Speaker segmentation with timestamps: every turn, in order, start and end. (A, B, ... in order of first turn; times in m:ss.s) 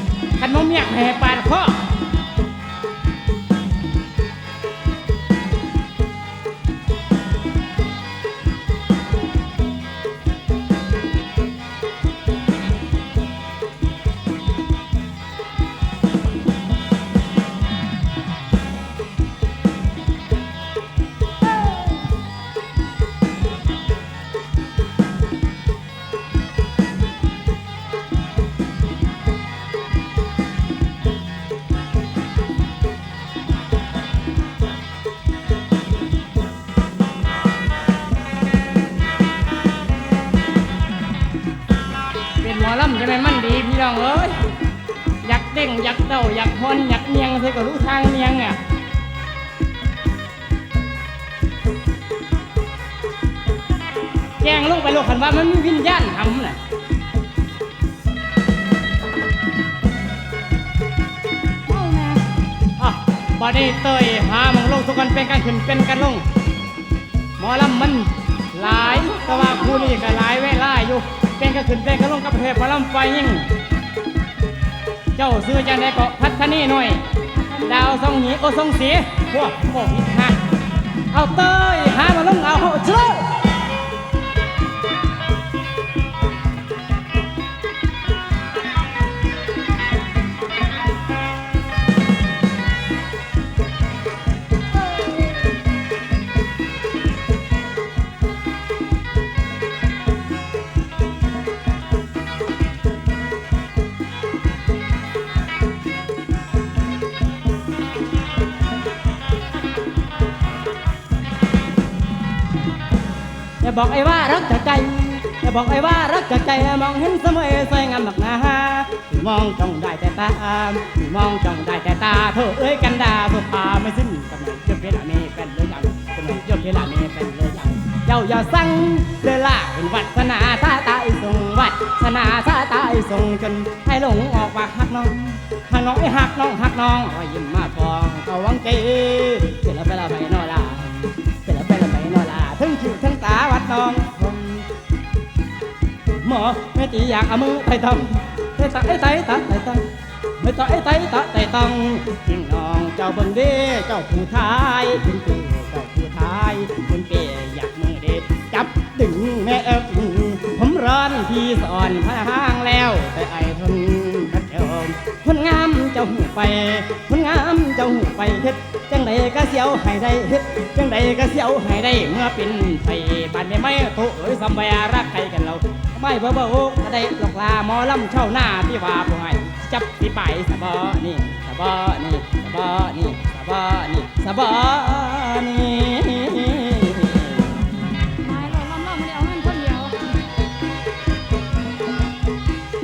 0:00.4-0:01.8 A
0:42.4-0:44.4 A
0:45.2-0:48.6 A
0:54.4-0:56.6 A
1:01.7-1:02.2 B
1:02.8-1:06.2 A
1:07.4-1:13.5 A
1:08.6-1:10.1 B
1:15.2-1:17.0 A
1:17.3-1:18.0 B
1:17.6-1:20.4 A
1:21.1-1:23.4 A
1:53.6-2:24.7 A
2:26.2-2:29.8 A
2:30.4-3:07.5 A
3:08.2-3:09.9 B